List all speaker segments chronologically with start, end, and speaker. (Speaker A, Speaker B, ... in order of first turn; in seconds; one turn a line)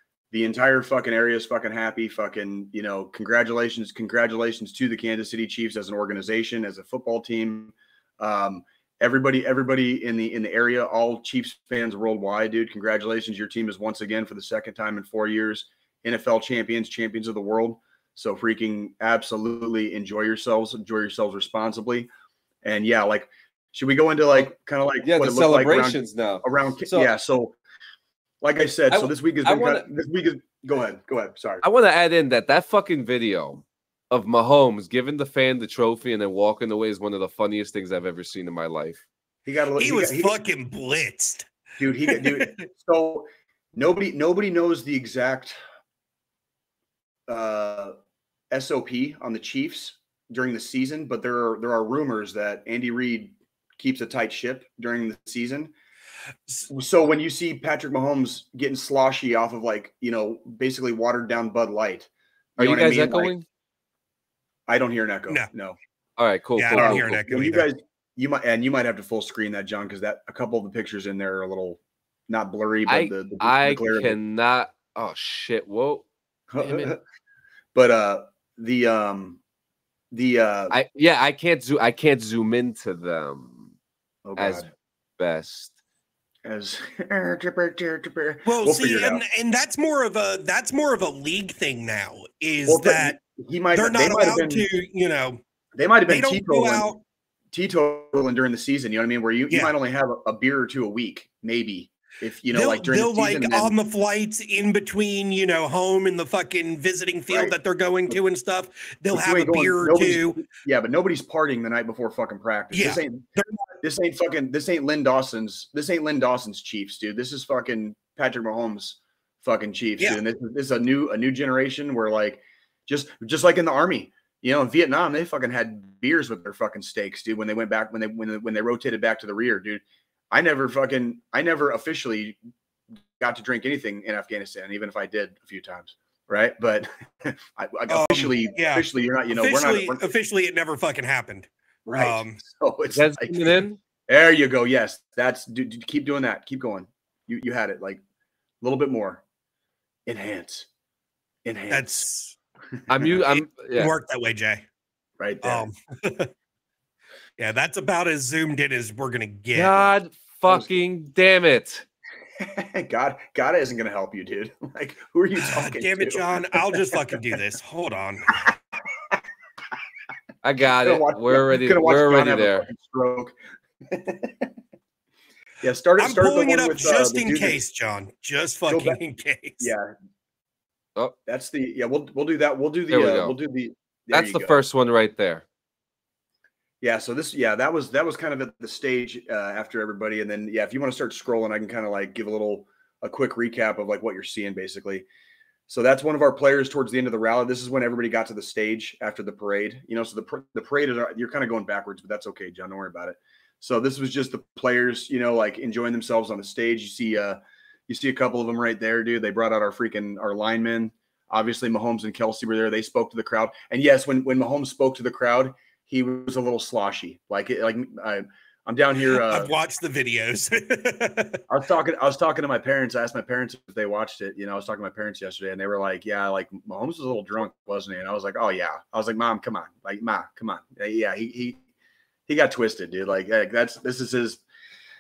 Speaker A: 0.3-22.1
Speaker A: 22.6-27.6
Speaker B: 25.0-27.1
Speaker A: 28.4-31.6
Speaker B: 28.9-29.9
Speaker B: 31.6-39.0
Speaker A: 39.5-40.4
Speaker C: 39.8-41.5
Speaker A: 41.8-45.6
Speaker C: 42.1-42.7
Speaker A: 47.3-48.0
Speaker A: 48.5-55.7
Speaker A: 56.7-63.3
Speaker B: 62.6-63.5
Speaker A: 64.7-65.8
Speaker B: 66.2-67.2
Speaker C: 66.6-67.7
Speaker A: 66.7-74.2
Speaker B: 72.9-76.1
Speaker A: 76.5-77.0
Speaker B: 76.6-76.9
Speaker A: 77.7-79.4
Speaker A: 80.1-80.8
Speaker B: 80.7-83.7
Speaker A: 84.2-84.7
Speaker B: 84.4-85.7
Speaker A: 86.5-89.2
Speaker C: 88.5-93.2
Speaker A: 92.7-94.7
Speaker C: 93.7-95.4
Speaker A: 95.8-96.9
Speaker C: 96.1-97.0
Speaker A: 97.5-103.8
Speaker C: 102.5-110.4
Speaker A: 107.3-107.5
Speaker A: 109.1-113.2
Speaker C: 112.7-113.6
Speaker A: 113.8-132.4
Speaker A: 133.2-140.1
Speaker C: 137.9-142.4
Speaker A: 141.9-148.0
Speaker B: 142.9-143.8
Speaker A: 148.6-149.2
Speaker A: 150.1-150.7
Speaker A: 151.4-152.1
Speaker C: 151.7-152.4
Speaker A: 152.9-153.2
Speaker B: 152.9-153.9
Speaker C: 153.1-154.7
Speaker A: 155.2-155.7
Speaker C: 155.4-156.3
Speaker C: 157.4-159.9
Speaker B: 159.5-161.8
Speaker A: 160.5-160.7
Speaker A: 162.4-166.8
Speaker C: 165.4-168.4
Speaker B: 170.4-172.7
Speaker A: 170.8-173.4
Speaker A: 173.9-174.5
Speaker A: 175.6-177.6
Speaker C: 176.0-179.7
Speaker A: 178.7-179.0
Speaker A: 179.6-179.9
Speaker A: 181.3-184.6
Speaker B: 182.9-183.3
Speaker B: 184.1-185.4
Speaker A: 186.8-195.1
Speaker A: 195.7-219.5
Speaker C: 219.1-221.4
Speaker A: 221.5-231.6
Speaker A: 232.3-234.4